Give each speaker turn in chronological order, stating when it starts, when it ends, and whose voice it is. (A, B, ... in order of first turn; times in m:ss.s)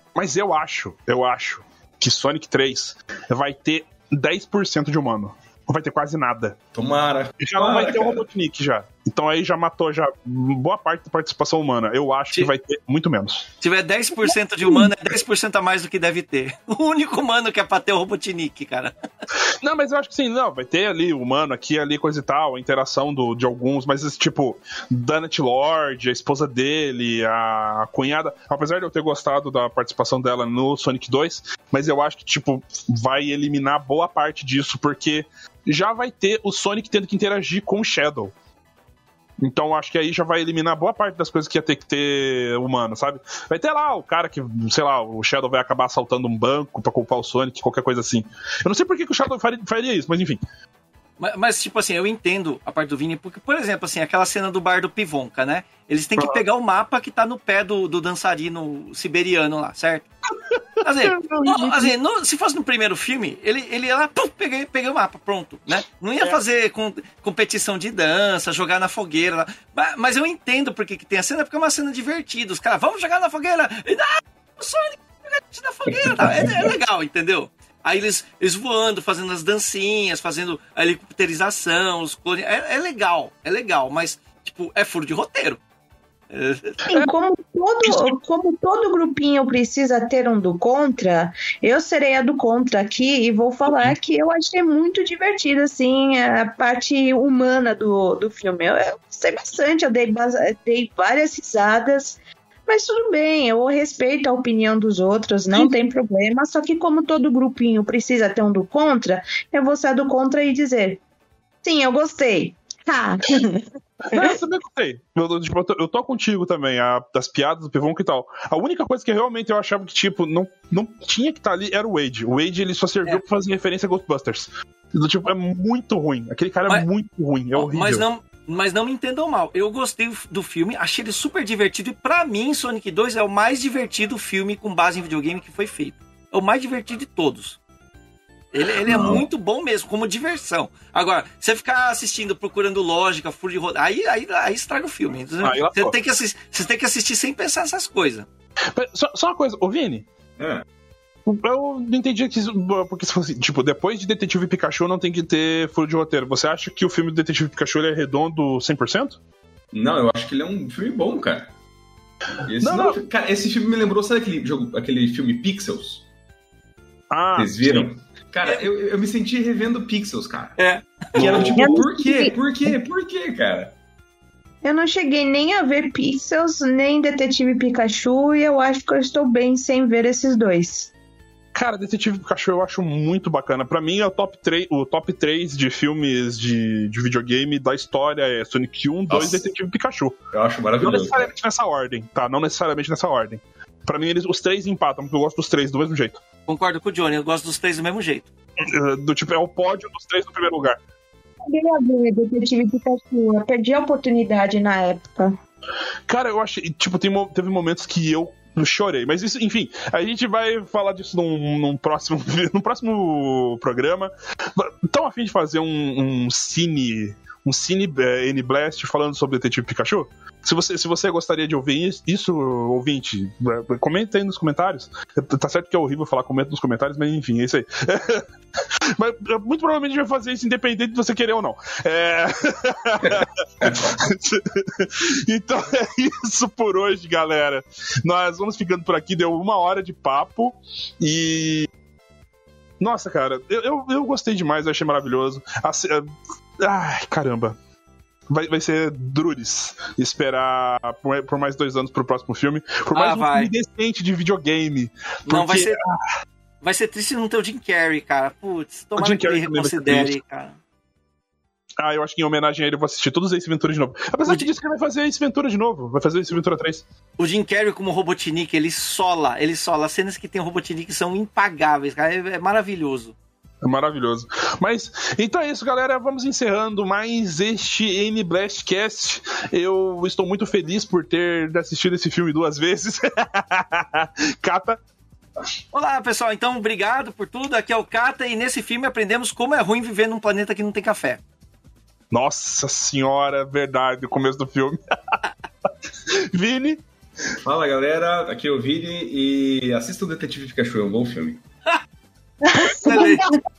0:00.1-0:06.6 A
0:06.7-0:08.2 B
0:07.4-0:13.5 A
0:13.6-0:18.9 C
0:19.6-0:38.3 A
0:39.4-0:50.4 A
0:51.2-1:00.1 C
0:56.2-0:56.4 A
1:00.5-1:01.9 A
1:00.8-1:25.6 C
1:16.0-1:16.7 B
1:26.3-1:26.8 C
1:26.8-1:27.1 A
1:26.9-1:51.0 D
1:27.8-1:28.1 A
1:33.7-1:34.0 A
1:51.6-1:54.4 D
1:54.1-2:08.0 A
2:07.5-2:17.6 C
2:18.5-2:28.2 C
2:18.9-2:19.2 B
2:25.4-2:26.0 A
2:28.7-2:30.1 A
2:30.4-2:30.6 B
2:31.3-2:39.2 A
2:39.7-2:41.5 B
2:42.4-2:46.0 B
2:42.6-2:43.0 A
2:47.1-2:47.9 A
2:47.4-2:50.6 B
2:48.4-2:48.7 C
2:50.6-2:51.6 C
2:51.1-2:53.7 B
2:51.2-2:51.6 A
2:51.5-2:52.3 D
2:54.6-3:00.9 D
3:01.5-3:10.2 A
3:09.1-3:09.4 B
3:10.3-3:11.3 B
3:10.8-3:16.2 A
3:16.5-3:18.3 C
3:18.6-3:20.8 A
3:21.4-3:25.4 D
3:26.1-3:48.2 A
3:48.9-4:01.7 A
3:53.0-3:54.0 B
4:02.8-4:06.0 A
4:06.6-4:07.6 A
4:08.3-4:16.0 A
4:12.9-4:13.5 C
4:15.2-4:15.8 C
4:16.6-4:20.6 C
4:19.0-4:20.2 A
4:21.8-4:26.8 A
4:27.2-4:33.1 C
4:33.6-4:44.8 A
4:45.7-4:51.2 C
4:52.1-4:55.2 A
4:56.1-4:56.8 A
4:57.4-5:01.4 B
5:02.4-5:03.4 D
5:02.6-5:03.3 A
5:02.8-5:03.3 C